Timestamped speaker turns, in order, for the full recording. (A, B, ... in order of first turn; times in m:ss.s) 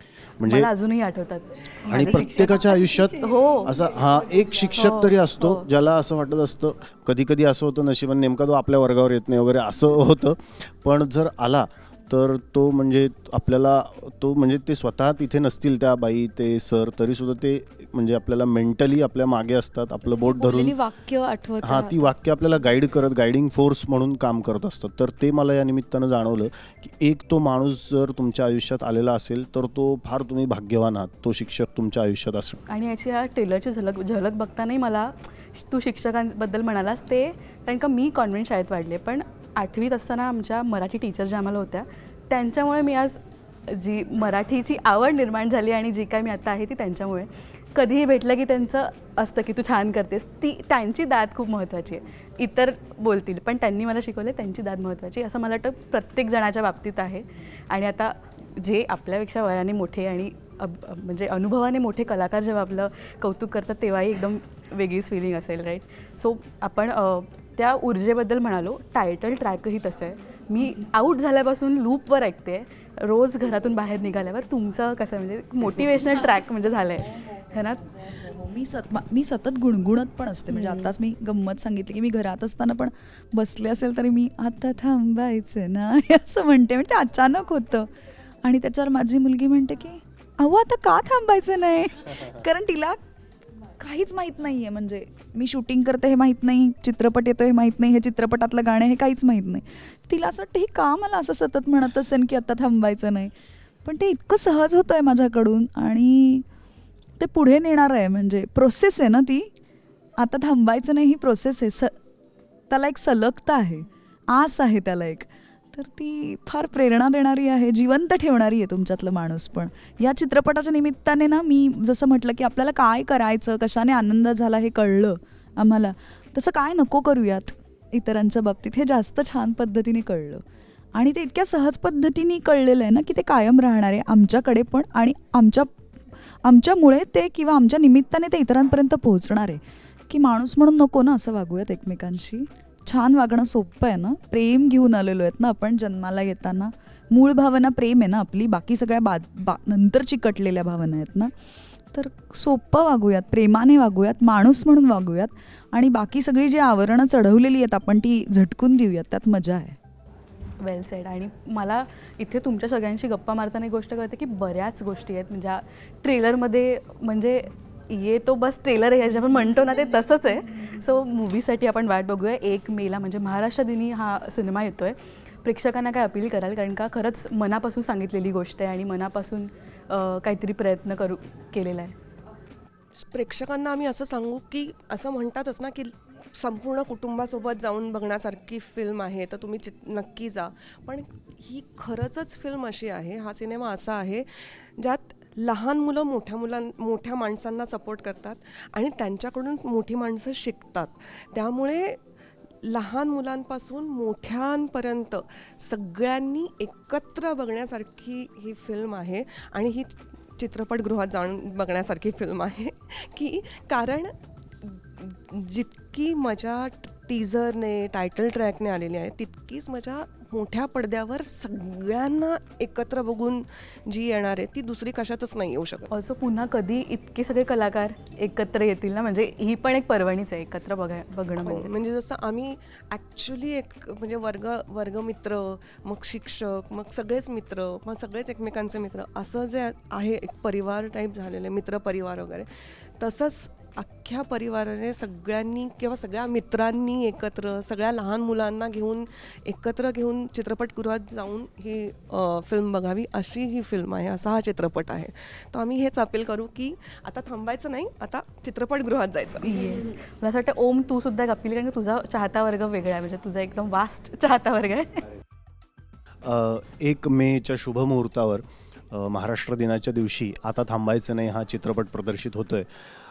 0:00.4-0:00.7 A
0:00.4-0:03.8 B
0:01.8-0:20.8 A
0:04.8-0:05.6 B
0:20.1-0:22.1 C
0:21.6-0:32.6 A
0:32.7-1:17.9 B
1:17.9-1:27.9 D
1:20.5-1:20.9 B
1:28.4-1:33.0 D
1:33.8-1:43.3 D
1:43.8-1:46.4 D
1:47.2-1:49.5 D
1:50.2-1:51.9 D
1:52.7-2:10.4 D
2:10.9-2:15.8 D
2:16.4-2:31.3 D
2:31.9-2:39.8 D
2:40.6-3:01.9 B
3:03.0-3:22.0 E
3:22.6-3:45.9 E
3:45.9-3:51.7 B
3:51.4-4:19.9 E
4:19.4-4:25.0 B
4:26.2-4:32.9 A